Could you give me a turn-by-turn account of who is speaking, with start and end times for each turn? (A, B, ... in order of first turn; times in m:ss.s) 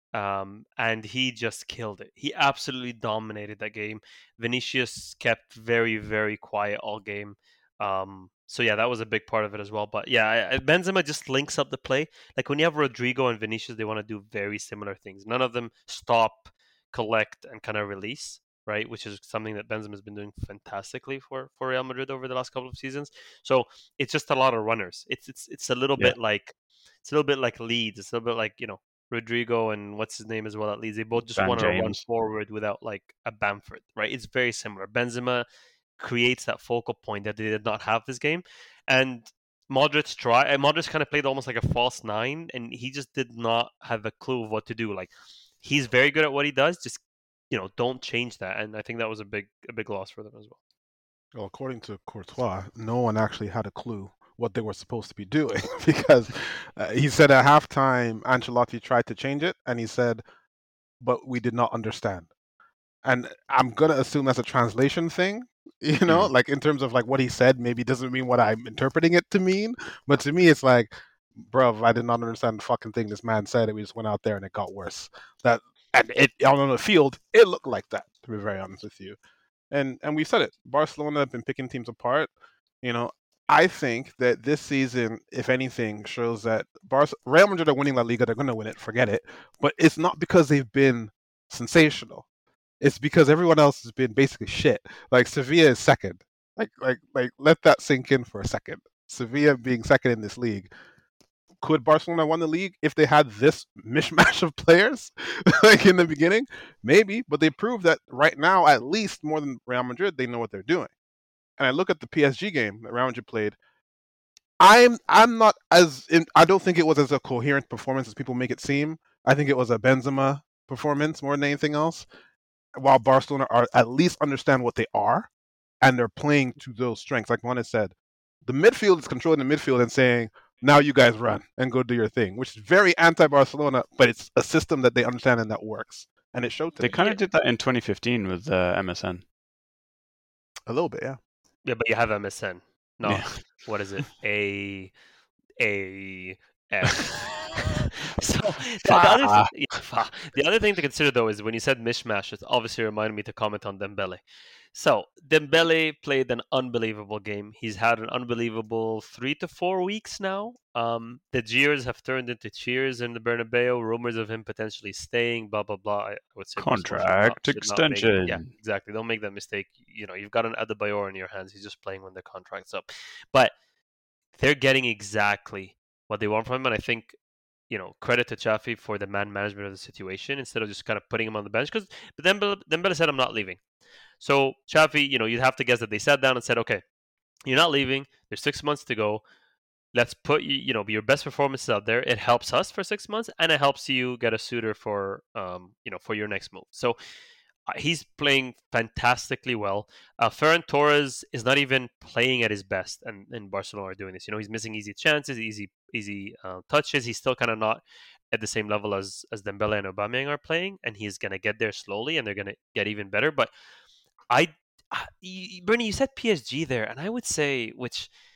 0:00.1-0:35.5 A
0:31.4-0:32.0 B
0:36.0-0:50.6 A
0:51.3-1:00.2 C
1:01.0-1:02.3 C
1:03.0-1:19.2 C
1:19.7-1:22.3 C
1:22.8-1:32.2 C
1:32.8-1:40.7 C
1:41.6-1:50.9 C
1:51.6-1:53.6 C
1:54.6-2:02.1 C
2:02.8-2:05.3 C
2:05.8-2:17.0 C
2:16.8-2:19.2 B
2:20.7-2:21.2 C
2:21.6-2:24.9 A
2:23.0-2:23.3 B
2:25.6-2:53.5 A
2:28.8-2:29.6 B
2:46.6-2:48.5 B
2:54.4-2:57.2 A
2:57.7-3:03.6 A
3:04.2-3:06.8 A
3:07.5-3:09.2 A
3:09.9-3:17.0 A
3:17.7-3:33.5 A
3:34.3-3:38.1 A